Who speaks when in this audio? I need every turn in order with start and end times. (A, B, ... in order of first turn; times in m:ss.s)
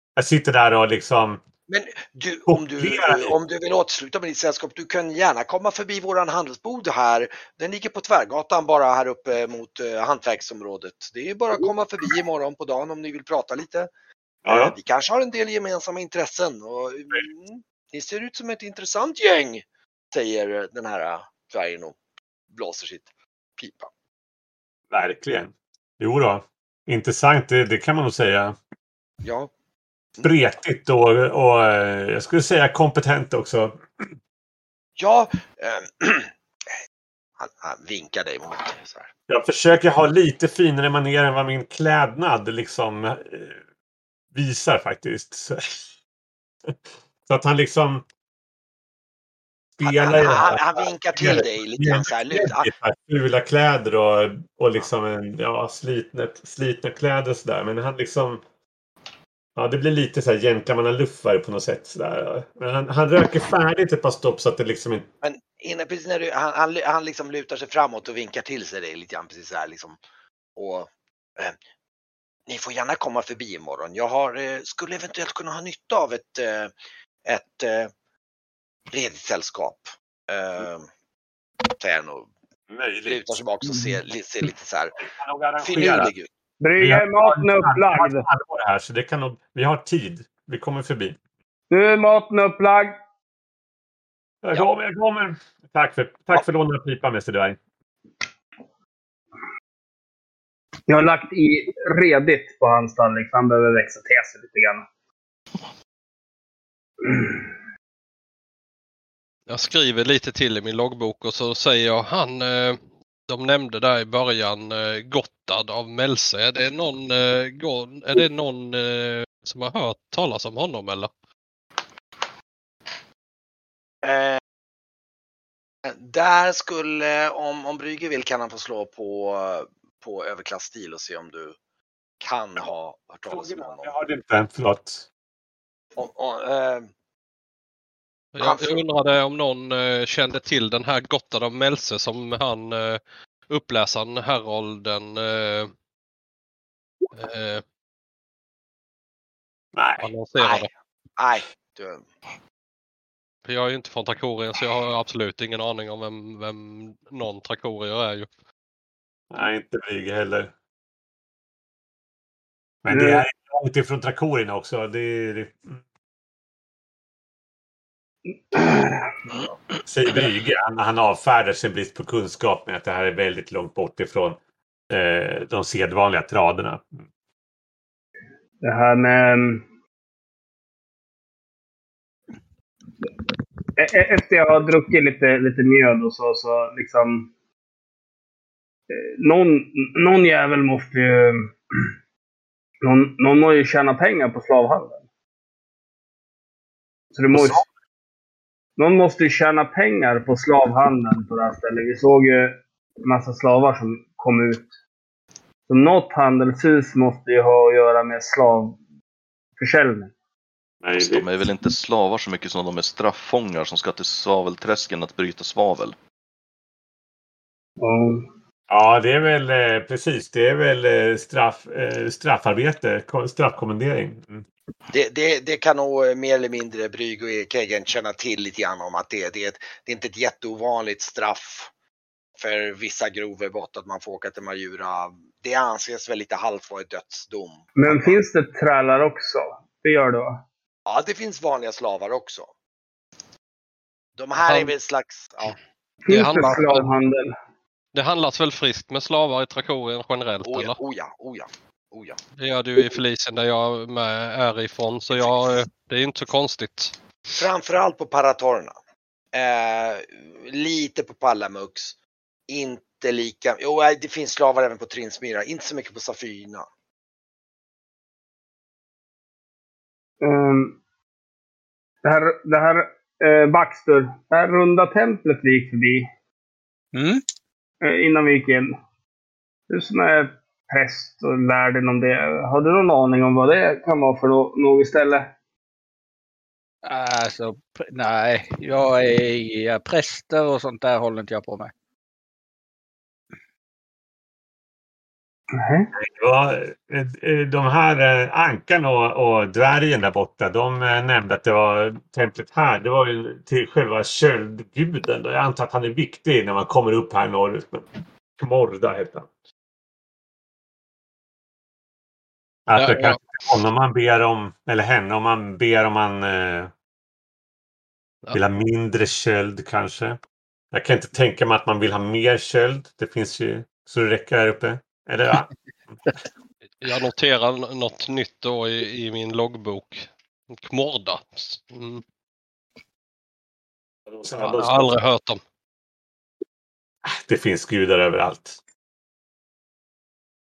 0:00.2-0:01.4 A
0:01.7-0:13.9 B
0:02.5-0:03.4 A
0:14.5-0:14.7 A
0:14.5-0:22.0 B
0:22.5-0:23.9 B
0:24.9-0:28.6 A
0:29.2-0:29.5 B
0:30.2-0:34.1 A
0:35.0-0:36.3 B
0:37.4-0:39.1 B
0:39.3-0:43.6 A
0:44.3-0:45.9 A
0:46.7-0:48.0 A
0:49.8-0:58.4 A
0:49.8-0:52.7 B
0:59.6-1:05.1 A
1:05.2-1:10.0 B
1:10.6-1:11.6 B
1:12.5-1:16.7 B
1:17.3-1:17.9 B
1:18.9-1:20.9 B
1:21.8-1:22.3 B
1:22.7-1:23.3 A
1:23.1-1:25.0 B
1:25.0-1:26.1 A
1:25.6-1:26.3 B
1:26.6-1:28.2 C
1:26.8-1:31.2 A
1:31.7-1:33.0 C
1:34.4-1:37.6 A
1:40.9-1:44.9 C
1:47.1-1:47.4 C
1:49.5-2:01.1 D
2:04.0-2:04.4 B
2:05.9-2:11.6 B
2:12.2-2:13.9 B
2:13.3-2:15.1 A
2:16.0-2:16.9 B
2:18.4-2:25.7 D
2:18.4-2:18.8 B
2:27.2-2:27.6 D
2:29.7-2:30.1 A
2:30.0-2:30.7 D
2:30.4-2:30.7 B
2:31.2-2:32.0 B
2:33.4-2:38.3 D
2:39.3-2:40.5 A
2:42.8-2:45.8 A
2:42.9-2:43.2 C
2:48.5-2:49.1 C
2:49.8-2:54.4 A
2:54.9-2:57.0 A
2:58.6-2:59.6 C
3:03.8-3:07.3 C
3:08.9-3:11.5 C
3:12.8-3:15.0 C
3:17.1-3:17.6 C
3:18.8-3:24.7 C
3:25.7-3:28.8 C
3:29.6-3:30.1 C
3:30.8-3:31.4 A
3:31.0-3:36.0 E
3:37.8-3:38.2 C
3:38.7-3:44.4 A
3:44.9-3:51.7 B
3:52.4-3:58.2 B
3:57.8-4:00.4 C
4:00.9-4:02.5 B
4:04.2-4:05.6 B
4:04.4-4:04.7 D
4:06.1-4:07.3 C
4:06.1-4:06.9 D
4:07.9-4:10.8 D
4:10.4-4:12.2 B
4:12.4-4:16.9 D
4:15.1-4:15.6 B
4:17.4-4:18.8 B
4:19.3-4:22.0 B
4:22.5-4:26.7 B
4:30.2-4:30.8 C
4:32.0-4:36.1 C
4:36.9-4:37.2 F
4:37.8-4:38.8 C
4:39.7-4:45.3 C
4:46.8-4:51.7 F
4:55.6-4:55.9 C
4:56.0-5:07.8 A
5:08.4-5:09.3 A
5:12.7-5:16.7 A
5:12.8-5:13.2 D
5:18.3-5:20.2 A
5:20.7-5:25.5 A
5:26.8-5:32.0 D
5:34.1-5:35.0 A
5:34.4-5:35.4 D
5:37.1-5:38.6 A